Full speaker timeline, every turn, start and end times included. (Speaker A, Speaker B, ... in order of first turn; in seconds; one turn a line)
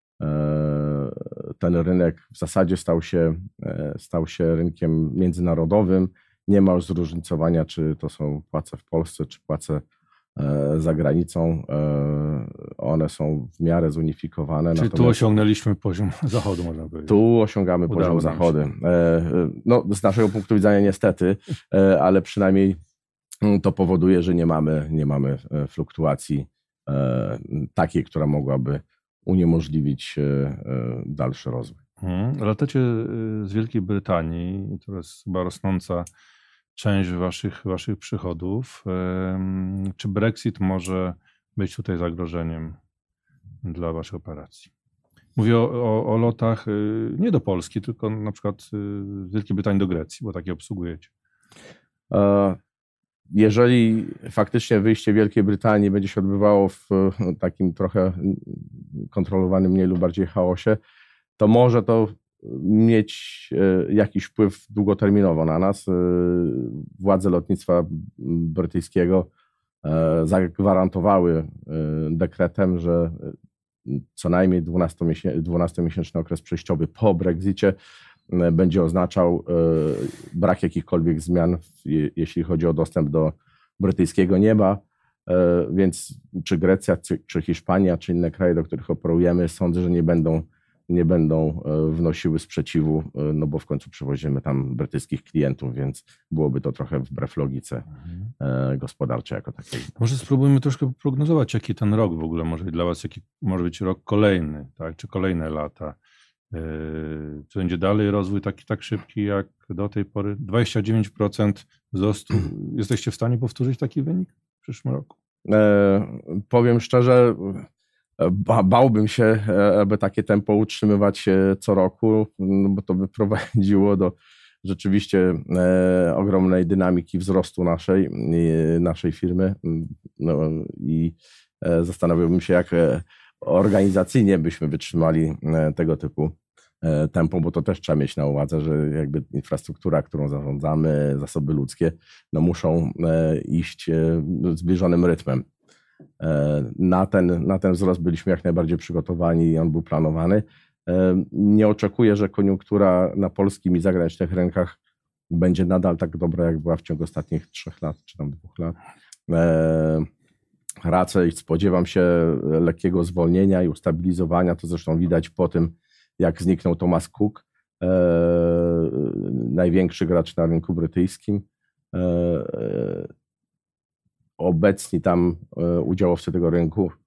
Speaker A: 0.2-9.8
Speaker A: 10.3-15.2
Speaker B: 14.7-17.2
Speaker A: 17.1-22.8
Speaker B: 17.9-18.5
Speaker A: 23.4-31.8
Speaker B: 32.0-36.1
Speaker B: 36.7-42.8
Speaker B: 43.6-44.7
Speaker B: 45.4-51.1
Speaker A: 52.1-52.6
Speaker A: 53.3-60.8
Speaker A: 61.4-69.3
Speaker A: 69.8-73.3
Speaker A: 73.8-77.8
Speaker A: 78.3-97.8
Speaker A: 98.4-99.9
Speaker B: 100.0-106.0
Speaker B: 106.5-115.2
Speaker A: 115.5-117.7
Speaker A: 118.2-145.4
Speaker A: 146.2-154.8
Speaker A: 155.3-158.8
Speaker A: 159.3-160.1
Speaker A: 160.8-173.1
Speaker A: 174.4-176.9